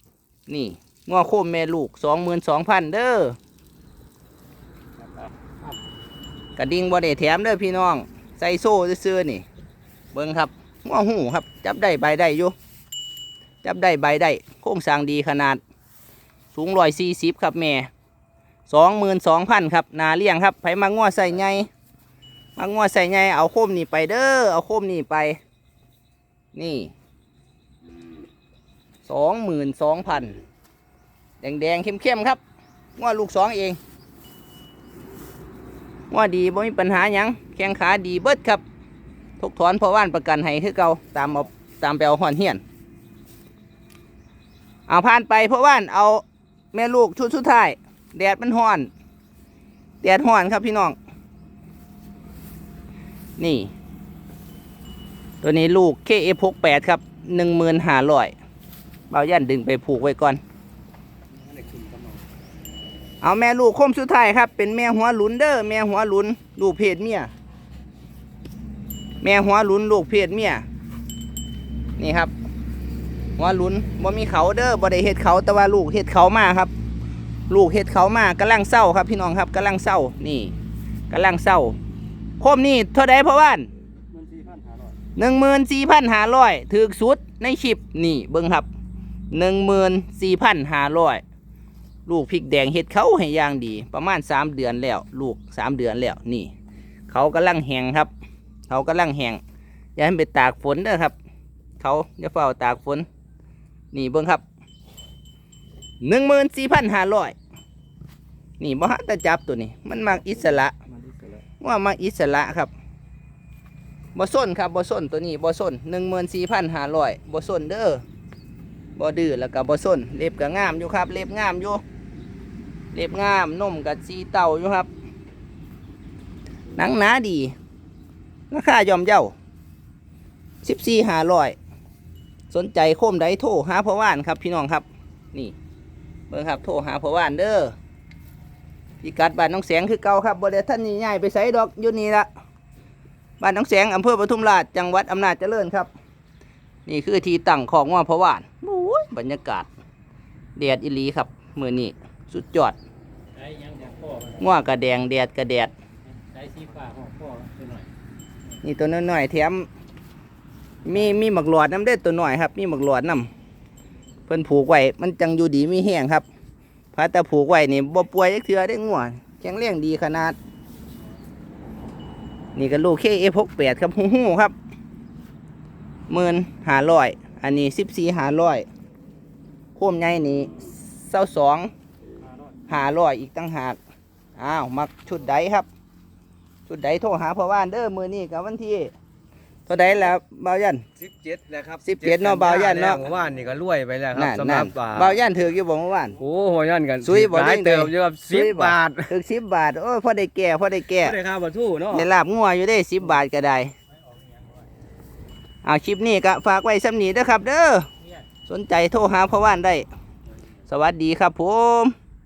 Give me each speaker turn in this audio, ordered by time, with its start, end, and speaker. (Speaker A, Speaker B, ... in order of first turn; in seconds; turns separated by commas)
Speaker A: 0.5-3.4, Speaker A: 6.6-9.4, Speaker A: 10.1-12.5, Speaker A: 13.6-15.6, Speaker A: 16.5-17.9, Speaker A: 18.7-21.7, Speaker A: 22.6-25.4, Speaker A: 26.5-26.9, Speaker A: 29.0-30.4, Speaker A: 31.4-32.4, Speaker A: 33.0-33.8, Speaker A: 36.1-38.6, Speaker A: 39.4-42.6, Speaker A: 44.9-48.9, Speaker A: 50.0-51.0, Speaker A: 53.4-53.7, Speaker A: 55.4-58.4, Speaker A: 59.1-60.4, Speaker B: 61.5-62.1, Speaker A: 63.2-67.3, Speaker A: 69.2-70.7, Speaker A: 72.0-72.3, Speaker A: 73.4-76.7, Speaker A: 77.5-80.5, Speaker A: 81.1-81.8, Speaker A: 82.4-83.7, Speaker B: 84.1-84.9, Speaker A: 85.2-88.7, Speaker A: 89.3-91.2, Speaker A: 92.1-96.5, Speaker A: 97.1-98.1, Speaker A: 98.7-99.4, Speaker A: 100.0-101.1, Speaker A: 101.8-103.1, Speaker A: 103.9-104.4, Speaker A: 106.0-107.4, Speaker A: 108.6-110.8, Speaker A: 111.6-112.7, Speaker A: 114.1-118.0, Speaker A: 119.0-121.8, Speaker A: 122.9-124.9, Speaker A: 126.8-127.5, Speaker A: 128.5-129.3, Speaker A: 130.6-131.6, Speaker A: 132.5-135.6, Speaker A: 136.3-137.8, Speaker A: 139.0-142.3, Speaker A: 143.4-145.9, Speaker A: 146.9-149.7, Speaker A: 150.6-152.8, Speaker C: 153.4-154.4, Speaker A: 154.4-155.7, Speaker C: 156.3-157.9, Speaker A: 158.6-159.7, Speaker A: 160.8-163.3, Speaker A: 164.3-166.2, Speaker A: 166.9-170.4, Speaker A: 172.6-174.5, Speaker A: 176.1-178.6, Speaker A: 179.8-181.7, Speaker A: 182.7-183.8, Speaker A: 184.4-185.7, Speaker A: 186.7-188.9, Speaker A: 189.7-190.8, Speaker B: 191.0-195.2, Speaker A: 191.8-193.1, Speaker A: 194.1-196.2, Speaker B: 196.2-199.1, Speaker A: 197.0-201.2, Speaker B: 201.0-202.1, Speaker A: 201.9-203.7, Speaker C: 204.1-204.5, Speaker A: 205.6-207.9, Speaker A: 208.4-209.9, Speaker A: 210.7-211.9